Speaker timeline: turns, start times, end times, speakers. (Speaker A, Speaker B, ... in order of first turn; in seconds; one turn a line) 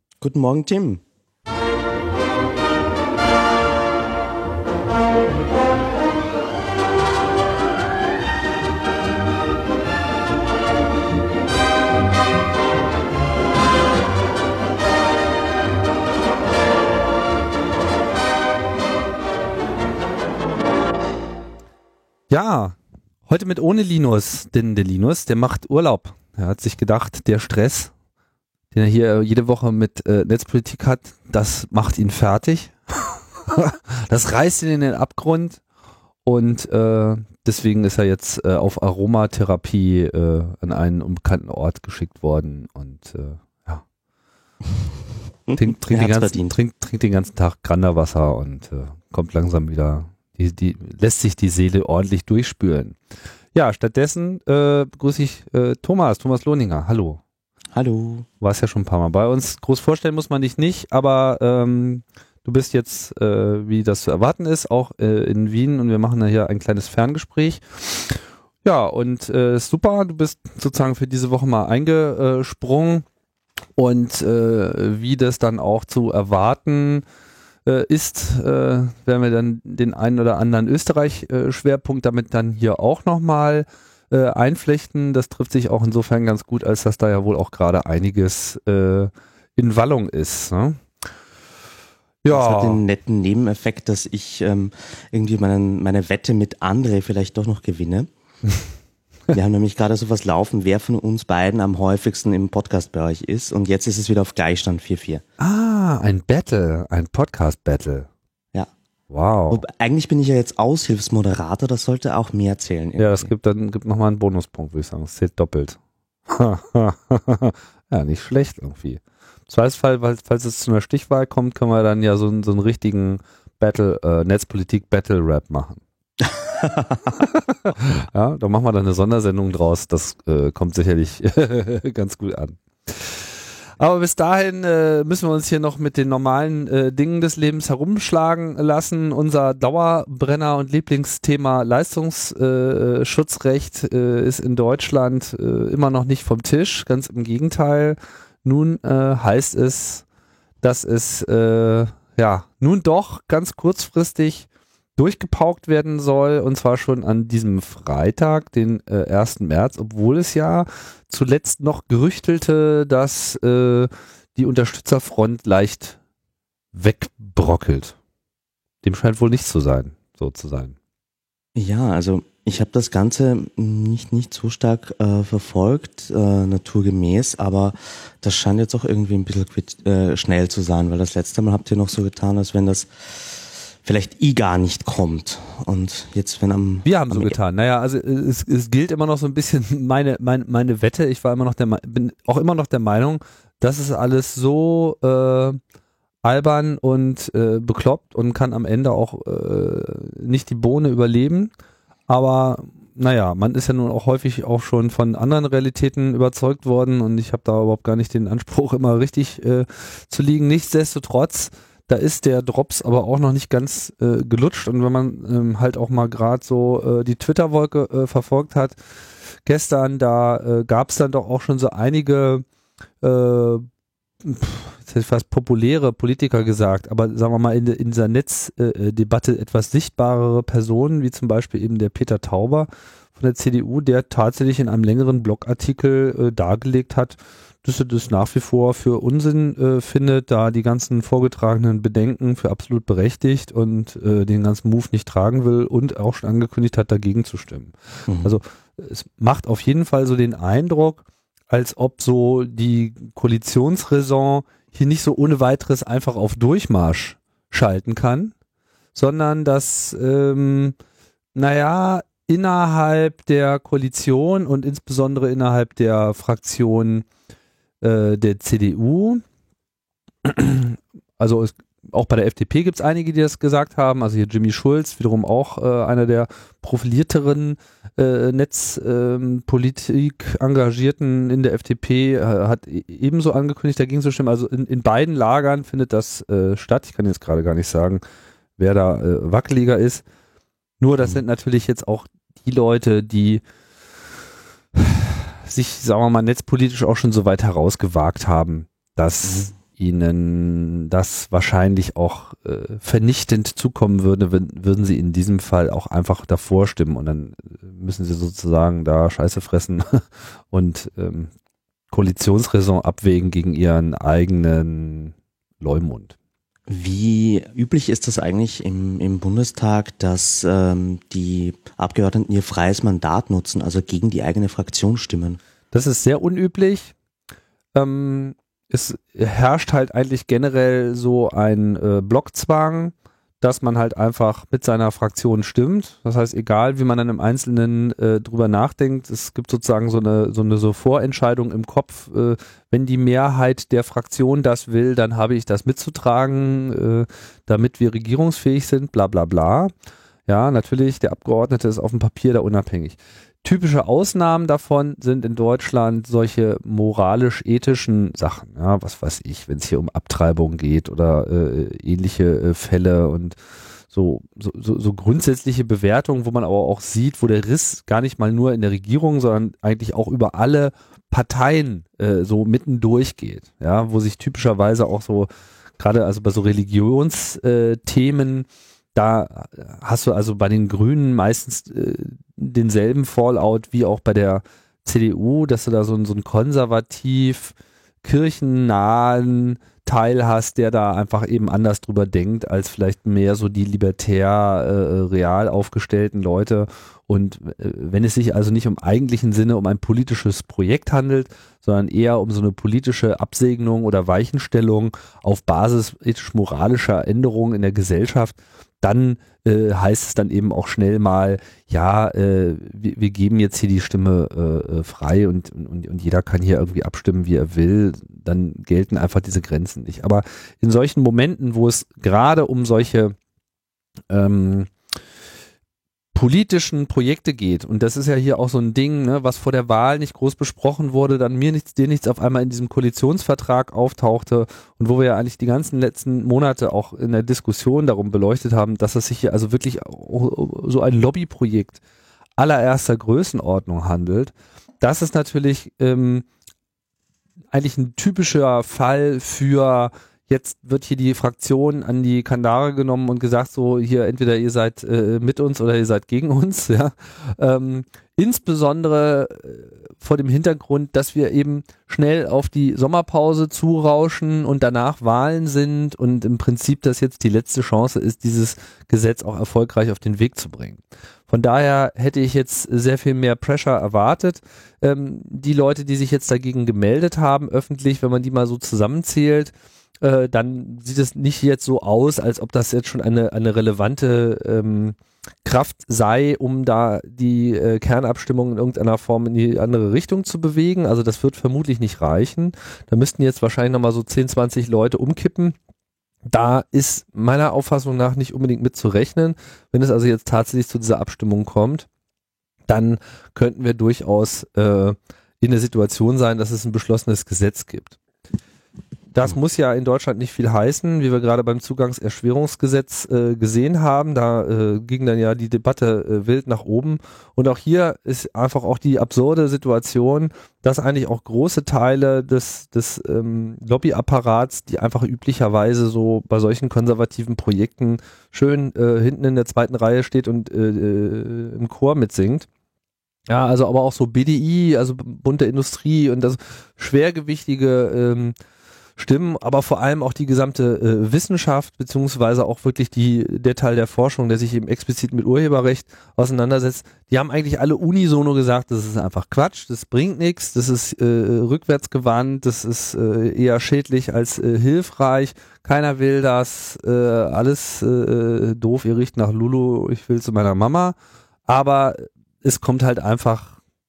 Speaker A: 0.2-1.0
Speaker B: 22.3-27.9
Speaker B: 28.7-35.6
Speaker B: 36.2-43.8
Speaker A: 45.5-46.5
Speaker B: 45.6-53.0
Speaker B: 53.5-57.2
Speaker A: 57.7-58.3
Speaker B: 58.4-73.0
Speaker B: 73.8-77.0
Speaker B: 77.7-90.8
Speaker B: 92.2-92.8
Speaker A: 92.3-98.1
Speaker A: 99.3-105.2
Speaker B: 105.4-108.1
Speaker B: 109.1-109.6
Speaker A: 109.5-113.3
Speaker B: 113.0-125.8
Speaker A: 126.2-127.2
Speaker B: 127.7-133.2
Speaker B: 133.8-150.1
Speaker B: 150.6-166.0
Speaker B: 166.7-168.0
Speaker B: 168.8-170.8
Speaker A: 171.6-187.4
Speaker B: 186.8-195.6
Speaker B: 196.2-201.5
Speaker B: 202.1-218.8
Speaker B: 219.4-222.4
Speaker B: 223.0-223.7
Speaker B: 224.2-258.3
Speaker A: 248.1-248.3
Speaker B: 258.9-260.8
Speaker B: 261.4-267.1
Speaker B: 267.8-269.2
Speaker B: 270.2-288.0
Speaker B: 288.6-290.1
Speaker B: 290.8-293.4
Speaker B: 294.8-311.3
Speaker A: 299.2-299.5
Speaker B: 311.9-316.1
Speaker A: 316.7-325.4
Speaker B: 325.7-326.9
Speaker B: 327.8-349.7
Speaker B: 350.3-363.4
Speaker B: 363.9-423.2
Speaker B: 424.1-424.7
Speaker B: 426.1-441.8
Speaker B: 442.4-446.3
Speaker B: 447.5-495.6
Speaker B: 496.3-501.9
Speaker B: 502.7-508.0
Speaker B: 509.1-532.5
Speaker B: 533.3-538.4
Speaker B: 539.0-561.0
Speaker B: 561.5-563.6